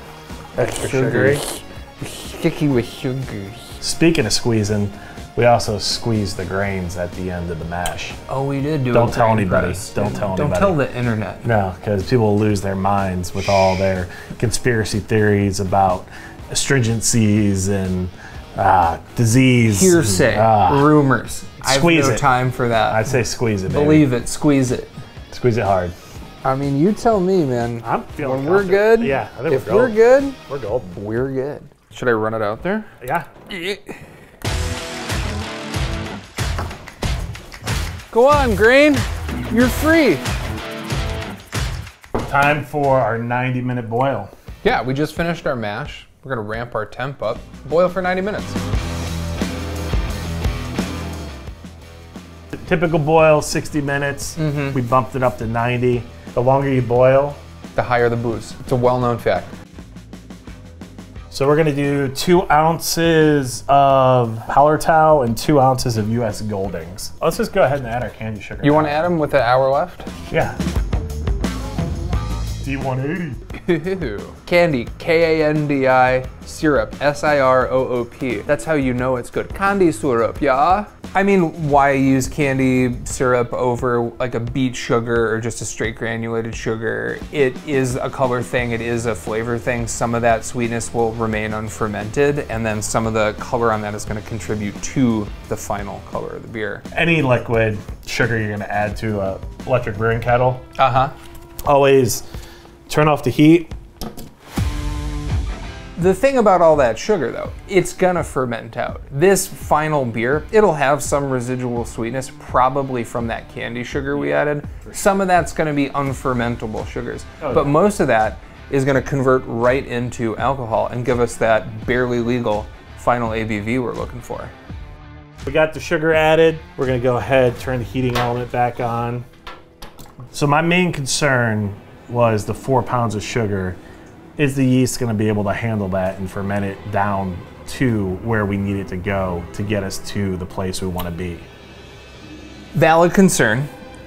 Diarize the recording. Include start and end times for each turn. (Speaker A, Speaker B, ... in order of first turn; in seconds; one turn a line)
Speaker A: 0.6-1.4
Speaker B: 0.6-3.8
Speaker A: 3.8-8.2
Speaker B: 8.3-11.5
Speaker A: 8.9-10.8
Speaker A: 11.4-20.9
Speaker B: 19.6-23.1
Speaker A: 21.6-22.2
Speaker A: 22.9-24.1
Speaker B: 23.7-24.9
Speaker A: 25.3-25.9
Speaker B: 26.4-30.4
Speaker A: 27.8-31.0
Speaker B: 30.9-32.9
Speaker A: 33.0-33.3
Speaker B: 33.5-34.0
Speaker B: 38.1-40.3
Speaker A: 42.2-44.3
Speaker B: 44.6-48.6
Speaker A: 52.5-57.4
Speaker B: 54.4-54.8
Speaker B: 57.7-59.5
Speaker A: 61.3-69.0
Speaker B: 68.6-70.1
Speaker A: 70.3-70.6
Speaker A: 72.6-73.4
Speaker B: 73.5-96.8
Speaker A: 96.9-100.6
Speaker B: 100.8-101.1
Speaker A: 101.6-102.2
Speaker A: 102.9-103.7
Speaker B: 106.0-124.5
Speaker A: 117.4-117.8
Speaker A: 125.4-129.2
Speaker A: 130.3-133.8
Speaker A: 134.4-141.5
Speaker B: 142.7-143.7